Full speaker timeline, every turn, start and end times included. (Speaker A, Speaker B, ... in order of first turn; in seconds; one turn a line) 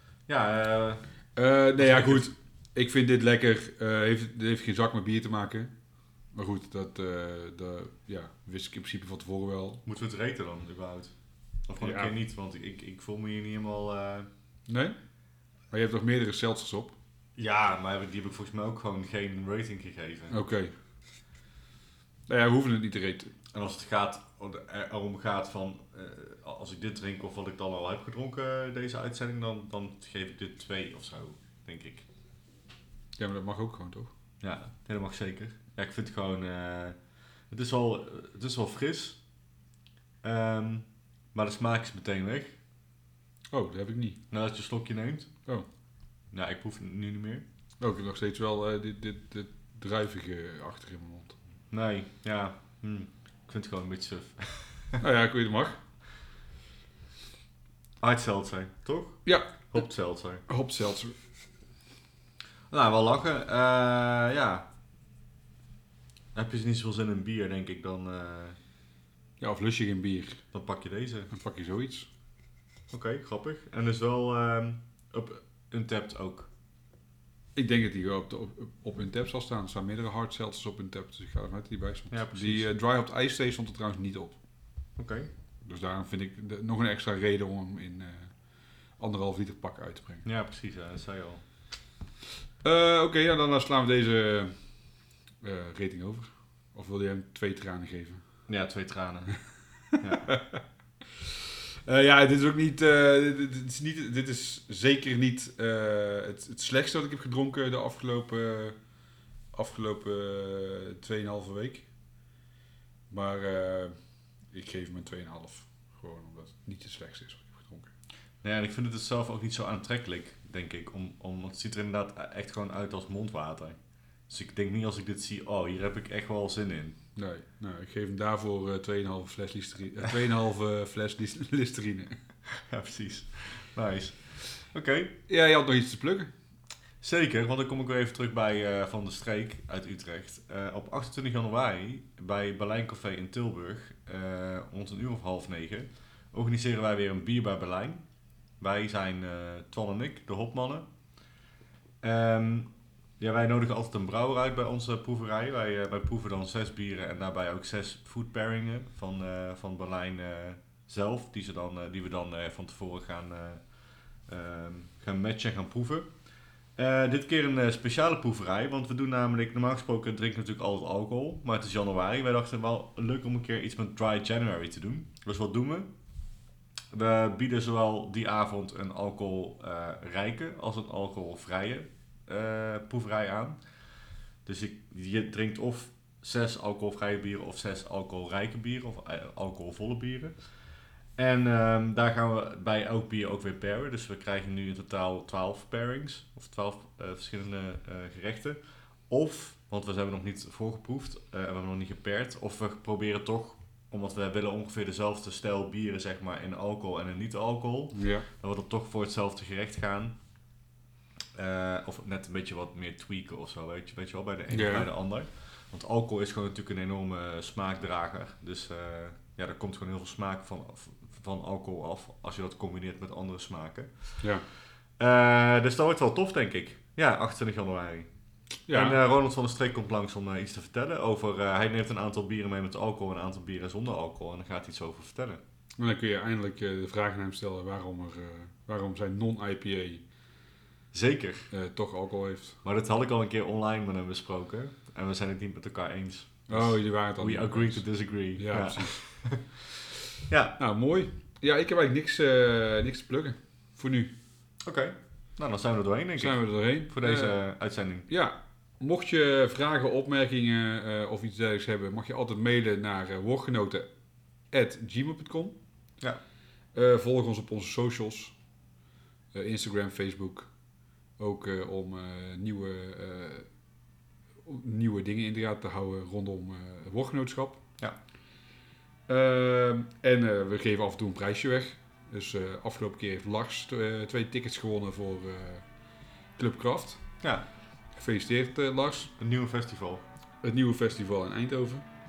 Speaker A: 0.3-1.0
Speaker B: 1.4-5.7
Speaker A: 1.8-2.3
Speaker B: 6.3-9.8
Speaker A: 9.8-11.1
Speaker A: 11.7-14.3
Speaker B: 11.8-12.2
Speaker B: 14.7-15.0
Speaker B: 15.7-17.0
Speaker A: 17.4-20.4
Speaker B: 20.3-20.7
Speaker B: 22.3-23.3
Speaker A: 23.5-32.1
Speaker B: 33.2-34.1
Speaker A: 34.4-37.0
Speaker A: 37.5-39.2
Speaker A: 40.2-42.6
Speaker B: 43.5-44.2
Speaker A: 44.3-45.3
Speaker A: 46.3-47.5
Speaker B: 47.8-51.4
Speaker A: 51.7-55.0
Speaker B: 55.0-55.8
Speaker A: 58.0-60.4
Speaker B: 59.2-59.6
Speaker B: 60.5-61.1
Speaker A: 62.7-64.7
Speaker A: 66.3-68.6
Speaker B: 69.4-70.4
Speaker A: 70.5-71.3
Speaker B: 71.3-72.1
Speaker A: 72.9-76.5
Speaker B: 77.6-84.4
Speaker A: 82.1-82.7
Speaker A: 85.0-85.3
Speaker B: 85.7-88.3
Speaker B: 89.0-90.3
Speaker A: 90.2-91.4
Speaker B: 92.6-94.5
Speaker B: 95.4-98.2
Speaker A: 98.5-99.4
Speaker B: 100.0-100.6
Speaker A: 100.0-100.3
Speaker B: 101.2-108.8
Speaker B: 109.5-111.9
Speaker B: 113.1-113.9
Speaker B: 114.5-117.9
Speaker A: 118.4-123.8
Speaker A: 124.3-127.0
Speaker B: 127.2-132.2
Speaker A: 132.5-135.1
Speaker B: 135.3-136.3
Speaker A: 137.0-148.1
Speaker A: 148.6-150.9
Speaker A: 152.0-163.6
Speaker A: 164.3-166.1
Speaker A: 166.8-175.9
Speaker A: 176.9-183.6
Speaker A: 184.4-190.3
Speaker A: 191.2-198.6
Speaker A: 199.1-210.2
Speaker B: 207.9-208.3
Speaker A: 211.3-224.2
Speaker B: 214.5-214.9
Speaker A: 225.0-228.1
Speaker B: 228.7-229.0
Speaker A: 228.7-235.4
Speaker B: 235.8-240.0
Speaker A: 240.9-241.5
Speaker B: 241.5-242.6
Speaker A: 242.6-249.5
Speaker B: 246.5-247.8
Speaker B: 248.4-249.0
Speaker A: 250.3-250.6
Speaker B: 250.6-254.1
Speaker A: 254.6-258.1
Speaker B: 256.2-257.4
Speaker B: 258.1-263.9
Speaker B: 264.5-265.6
Speaker B: 266.8-268.4
Speaker B: 269.3-270.5
Speaker B: 271.2-273.5
Speaker B: 274.4-277.6
Speaker B: 279.1-285.6
Speaker B: 286.4-287.0
Speaker A: 287.2-287.5
Speaker B: 288.0-289.1
Speaker A: 289.2-290.0
Speaker B: 290.4-291.9